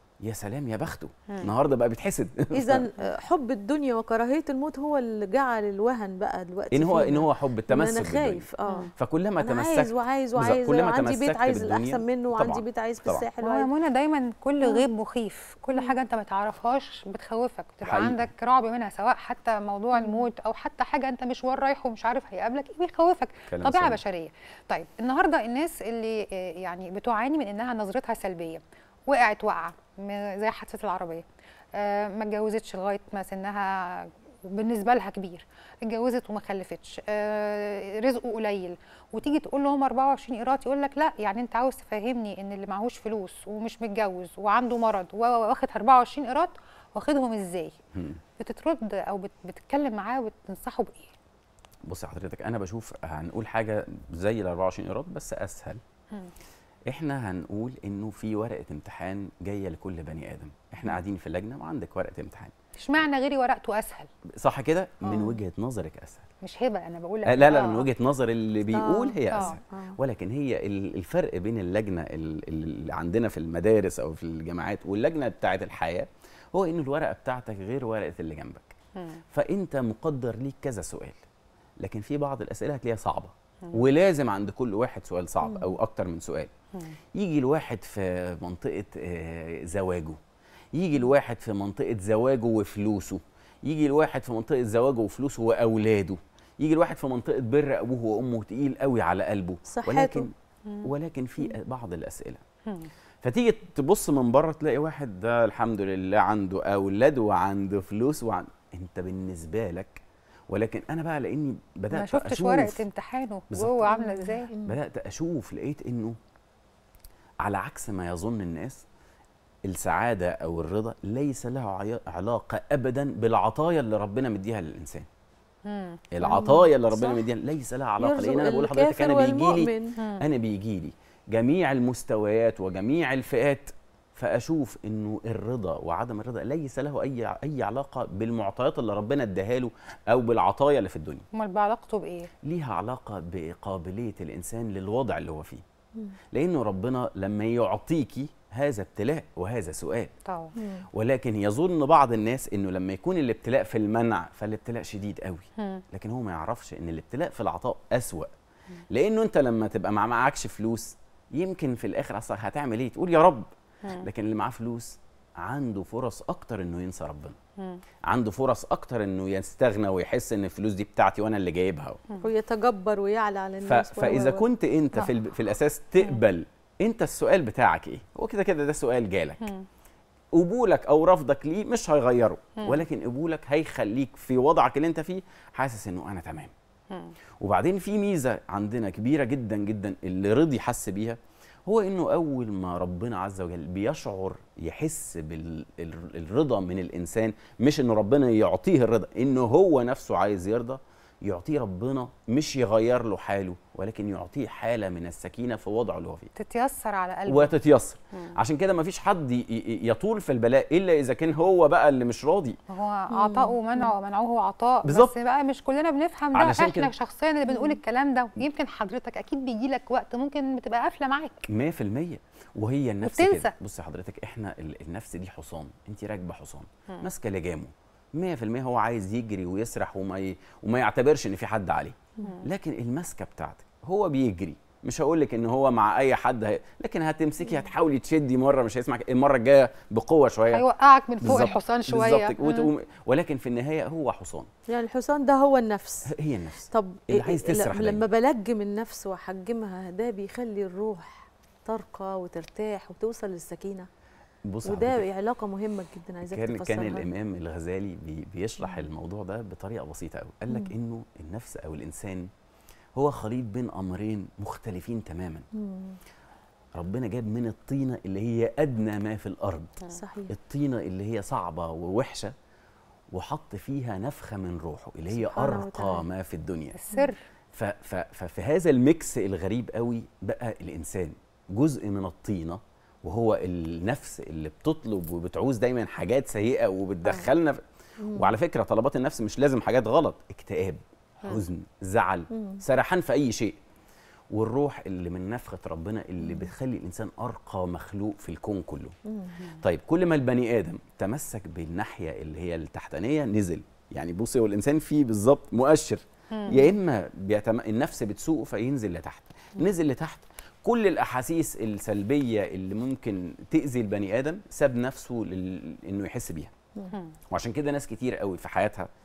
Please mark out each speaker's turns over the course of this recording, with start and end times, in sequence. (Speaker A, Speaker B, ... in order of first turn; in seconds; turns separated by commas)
Speaker A: 0.2-2.9, Speaker B: 2.5-13.7, Speaker A: 6.7-8.5, Speaker A: 9.0-13.2, Speaker C: 13.4-47.7, Speaker A: 17.8-18.3, Speaker A: 23.5-24.0, Speaker A: 47.9-48.2, Speaker C: 48.4-51.1, Speaker A: 51.9-55.8, Speaker A: 56.9-62.5, Speaker C: 62.8-64.1, Speaker A: 64.4-66.3, Speaker C: 65.1-65.4, Speaker C: 66.4-67.9, Speaker A: 67.3-78.8, Speaker B: 68.7-70.0, Speaker C: 79.0-79.2, Speaker A: 79.3-81.2, Speaker A: 81.8-86.5, Speaker B: 85.4-85.7, Speaker A: 87.2-90.2, Speaker A: 90.7-102.4, Speaker B: 99.7-100.3, Speaker A: 103.2-112.8, Speaker C: 111.9-114.5, Speaker A: 113.5-114.0, Speaker B: 113.9-114.8, Speaker A: 114.6-116.2, Speaker A: 117.4-118.8, Speaker A: 119.7-125.1, Speaker C: 125.7-126.5, Speaker A: 126.1-141.3, Speaker B: 126.2-127.2, Speaker B: 128.0-129.9, Speaker C: 130.0-130.3, Speaker C: 141.3-142.3, Speaker A: 142.4-145.6, Speaker A: 146.3-150.1, Speaker C: 150.3-150.5, Speaker B: 150.6-150.9, Speaker A: 150.9-158.3, Speaker C: 155.6-155.8, Speaker A: 158.9-167.4, Speaker A: 168.1-172.0, Speaker B: 172.2-174.5, Speaker A: 173.7-179.5, Speaker A: 180.3-186.5, Speaker C: 186.9-187.2, Speaker A: 187.4-206.3, Speaker C: 206.4-207.5, Speaker A: 207.3-212.6, Speaker C: 212.7-221.5, Speaker B: 213.1-213.9, Speaker A: 214.8-215.1, Speaker A: 216.3-216.9, Speaker B: 217.5-217.8, Speaker A: 221.5-240.6, Speaker C: 223.0-223.5, Speaker C: 232.2-232.5, Speaker C: 240.5-242.4, Speaker A: 241.2-244.5, Speaker B: 244.7-246.1, Speaker A: 246.1-248.0, Speaker B: 246.7-253.9, Speaker A: 254.5-255.1, Speaker B: 254.7-257.1, Speaker A: 256.2-262.3, Speaker A: 263.0-265.5, Speaker B: 265.5-266.0, Speaker A: 266.8-269.8, Speaker B: 269.9-270.3, Speaker A: 270.3-272.3, Speaker A: 273.1-276.8, Speaker B: 275.1-276.1, Speaker C: 276.7-277.2, Speaker A: 277.5-287.6, Speaker B: 288.0-288.3, Speaker A: 288.1-293.6, Speaker B: 292.3-292.6, Speaker A: 294.3-299.0, Speaker B: 299.1-299.4, Speaker A: 299.6-316.5, Speaker C: 306.3-306.7, Speaker A: 317.3-318.9